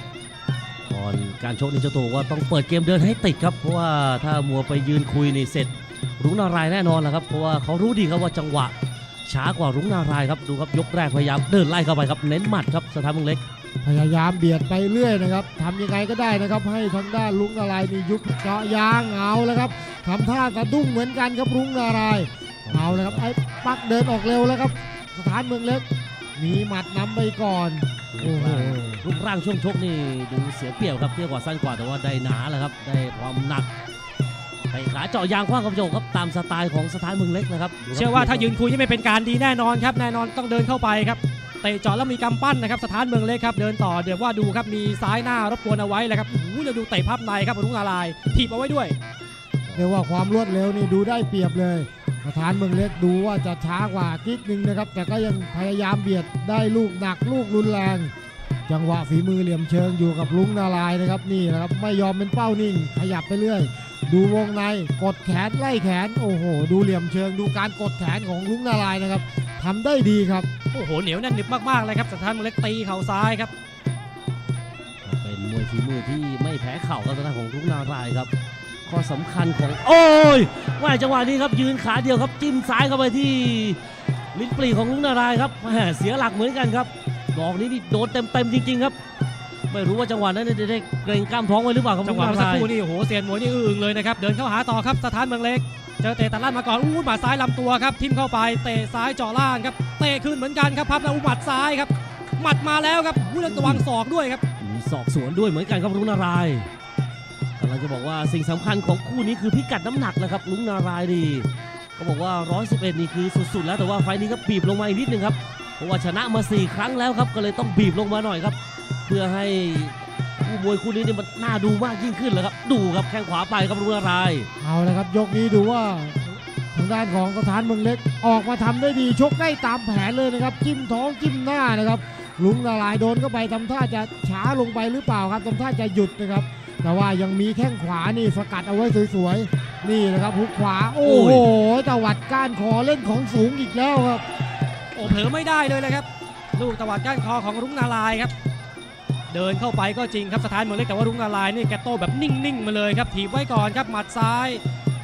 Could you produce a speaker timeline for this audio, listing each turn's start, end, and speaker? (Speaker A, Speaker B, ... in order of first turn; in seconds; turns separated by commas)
Speaker A: 0.9-8.7, Speaker A: 9.3-13.4, Speaker B: 13.8-25.9, Speaker A: 22.6-23.2, Speaker B: 26.4-29.0, Speaker A: 28.1-33.7, Speaker A: 34.7-38.5, Speaker C: 37.9-49.0, Speaker A: 49.6-49.9, Speaker B: 49.8-58.1, Speaker B: 58.7-70.5, Speaker C: 70.7-73.5, Speaker A: 75.0-78.3, Speaker A: 78.9-83.8, Speaker A: 84.3-89.0, Speaker A: 89.7-92.7, Speaker C: 92.0-104.4, Speaker A: 103.5-103.8, Speaker A: 104.6-106.7, Speaker A: 107.6-124.5, Speaker B: 124.6-144.2, Speaker A: 141.0-141.5, Speaker C: 144.9-148.3, Speaker C: 149.3-154.6